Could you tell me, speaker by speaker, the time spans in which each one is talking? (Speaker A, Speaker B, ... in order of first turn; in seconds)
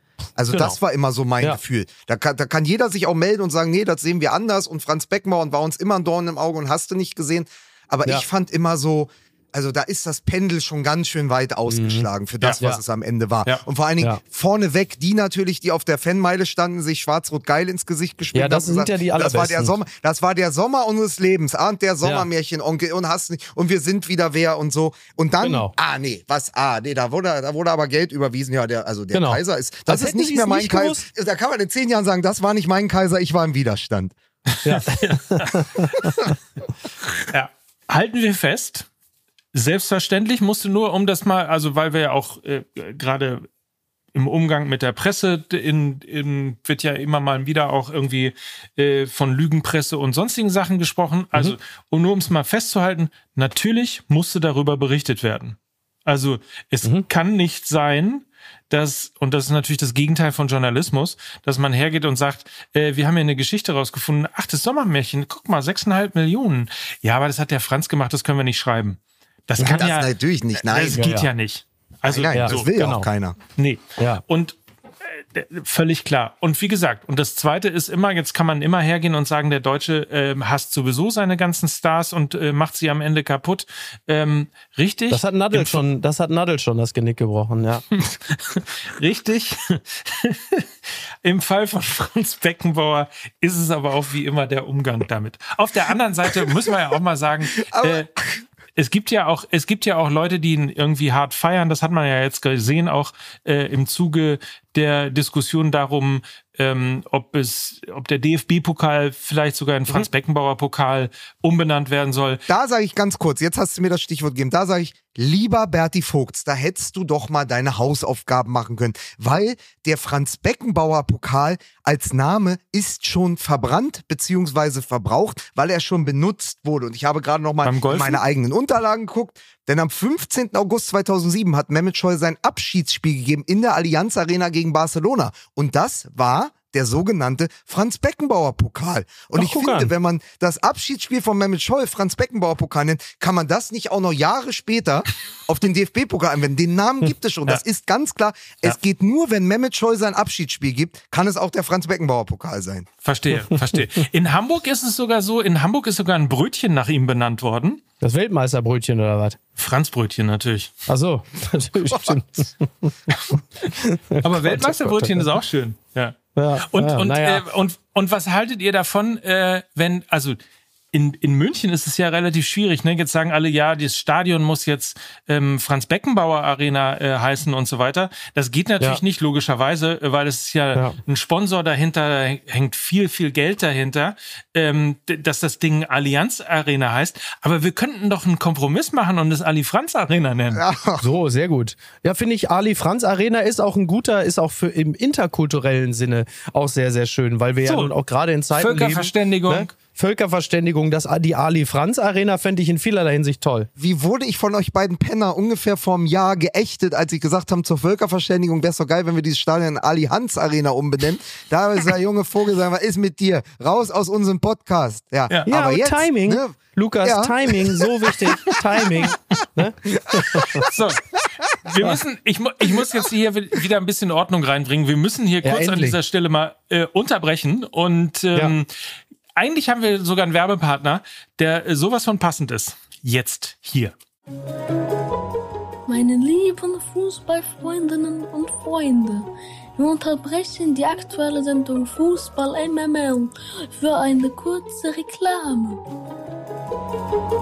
Speaker A: 0.4-34.1, 69.6-71.1, 72.0-73.4, 97.7-98.4, 112.5-152.9, 190.5-191.1, 203.8-218.1
Speaker B: 0.5-0.8, 11.7-12.1, 18.3-19.8, 22.0-22.3, 25.4-25.7, 29.1-31.1, 34.6-36.3, 70.9-71.3, 72.3-73.1, 74.0-74.2, 85.1-87.8, 139.3-139.9, 158.0-159.4, 160.9-163.2, 163.7-165.3, 166.4-167.4, 191.0-203.7, 215.5-220.7, 225.4-226.0
Speaker C: 34.6-35.6, 37.3-38.9, 39.5-43.5, 44.1-72.8, 73.6-74.6, 75.1-85.8, 88.3-90.7, 91.2-98.1, 98.8-112.4, 127.6-128.2, 153.0-157.8, 159.6-160.8, 164.2-166.2, 166.7-170.4, 170.9-190.6, 197.6-197.9, 198.6-199.7, 220.6-228.7, 229.4-233.9
Speaker D: 235.9-245.8